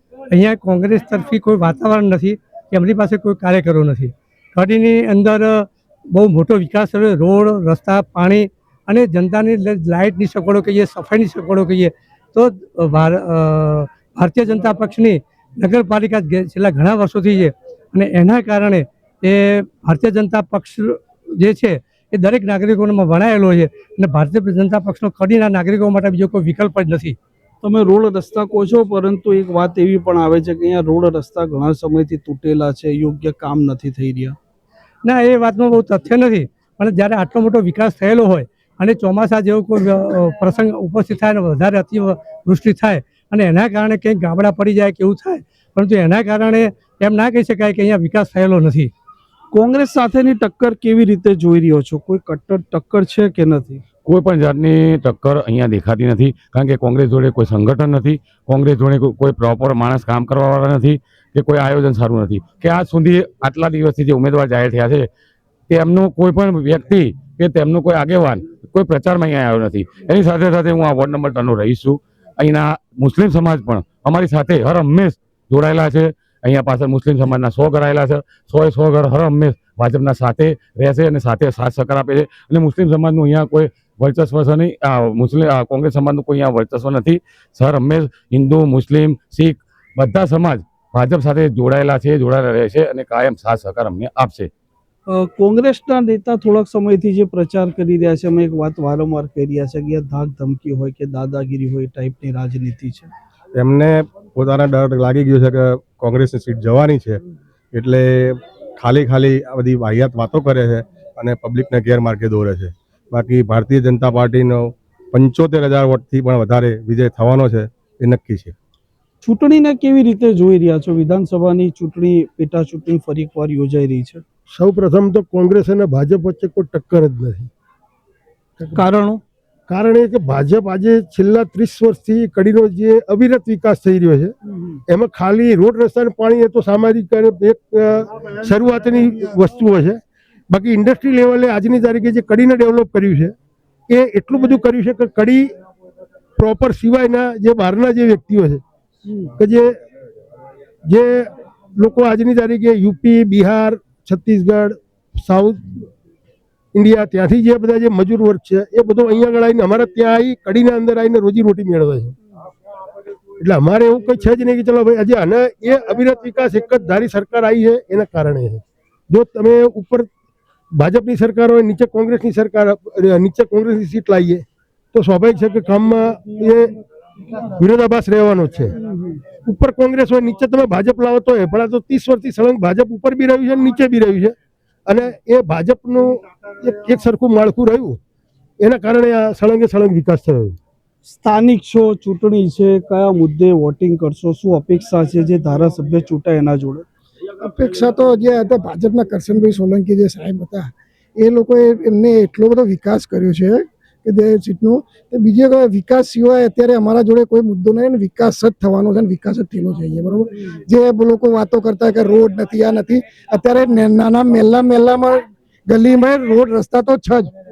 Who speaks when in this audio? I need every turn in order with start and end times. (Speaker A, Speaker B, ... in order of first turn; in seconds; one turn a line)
Speaker A: 0.3-27.2
Speaker B: 27.6-34.4
Speaker A: 35.0-48.9
Speaker B: 49.5-53.8
Speaker C: 54.0-65.1
Speaker C: 65.7-94.5
Speaker B: 95.1-103.1
Speaker D: 103.5-107.2
Speaker D: 107.7-118.5
Speaker B: 119.2-124.2
Speaker E: 124.5-127.5
Speaker B: 128.6-129.2
Speaker E: 129.7-134.3
Speaker E: 134.9-143.3
Speaker E: 143.9-145.5
Speaker E: 146.4-148.6
Speaker E: 149.4-149.7
Speaker E: 150.9-155.9
Speaker E: 156.7-162.2
Speaker E: 163.4-170.1
Speaker E: 170.7-176.7
Speaker E: 177.3-178.8
Speaker B: 178.8-179.2
Speaker E: 179.3-184.3
Speaker E: 184.9-188.0
Speaker E: 188.6-190.6
Speaker B: 191.1-196.9
Speaker F: 197.4-217.3